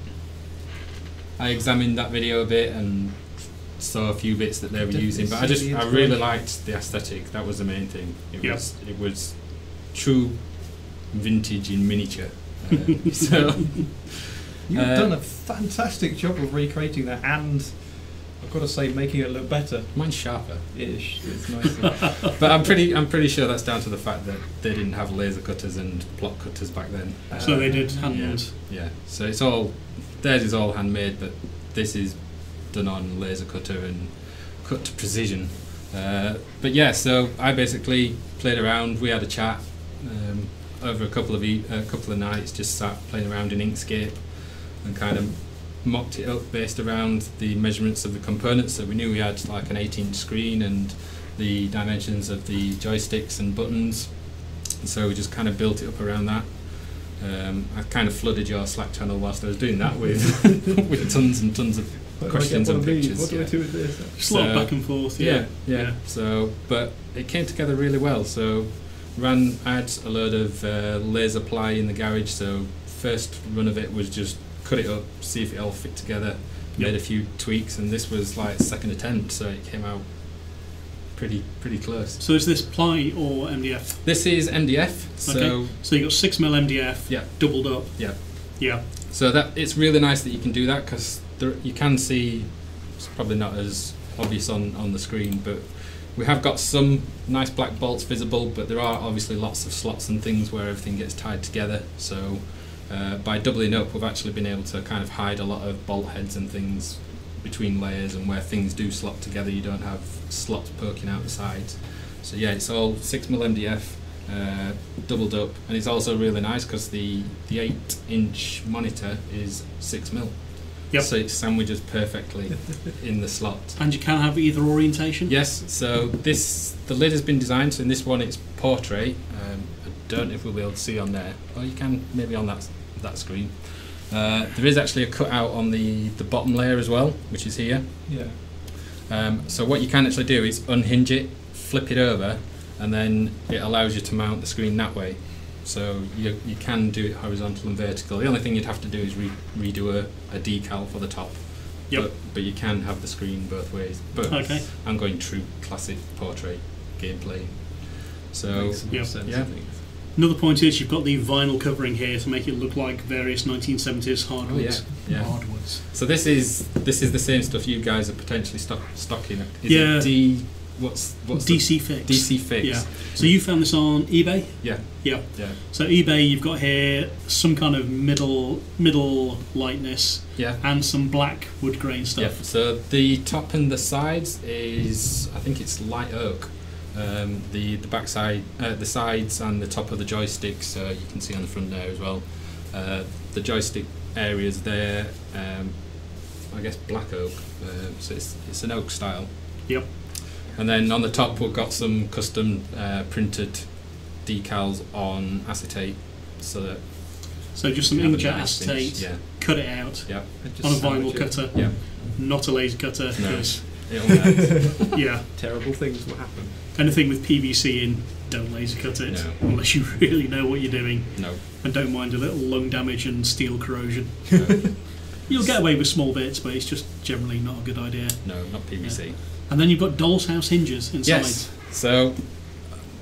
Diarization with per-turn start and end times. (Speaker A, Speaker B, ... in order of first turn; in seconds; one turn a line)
Speaker A: 1.4-15.1
Speaker B: 4.8-6.3
Speaker B: 14.7-22.6
Speaker A: 19.9-21.1
Speaker A: 21.9-82.2
Speaker B: 27.3-28.4
Speaker C: 27.4-28.5
Speaker B: 62.2-64.2
Speaker C: 64.2-66.0
Speaker C: 82.2-84.5
Speaker A: 84.0-86.1
Speaker C: 85.2-88.8
Speaker A: 87.1-123.8
Speaker C: 123.8-125.3
Speaker A: 125.2-159.5
Speaker B: 138.1-138.4
Speaker C: 154.3-154.7
Speaker B: 158.5-159.8
Speaker C: 158.9-165.8
Speaker A: 164.4-174.0
Speaker C: 169.7-170.6
Speaker C: 171.3-182.4
Speaker A: 174.6-175.6
Speaker A: 182.1-210.3
Speaker B: 200.8-201.5
Speaker C: 207.5-214.3
Speaker B: 210.4-211.8
Speaker A: 211.5-212.5
Speaker A: 213.2-214.9
Speaker C: 214.9-215.3
Speaker B: 215.3-216.6
Speaker C: 216.7-231.5
Speaker A: 219.1-219.4
Speaker A: 221.1-221.4
Speaker A: 224.3-225.4
Speaker A: 228.2-229.2
Speaker A: 231.0-232.8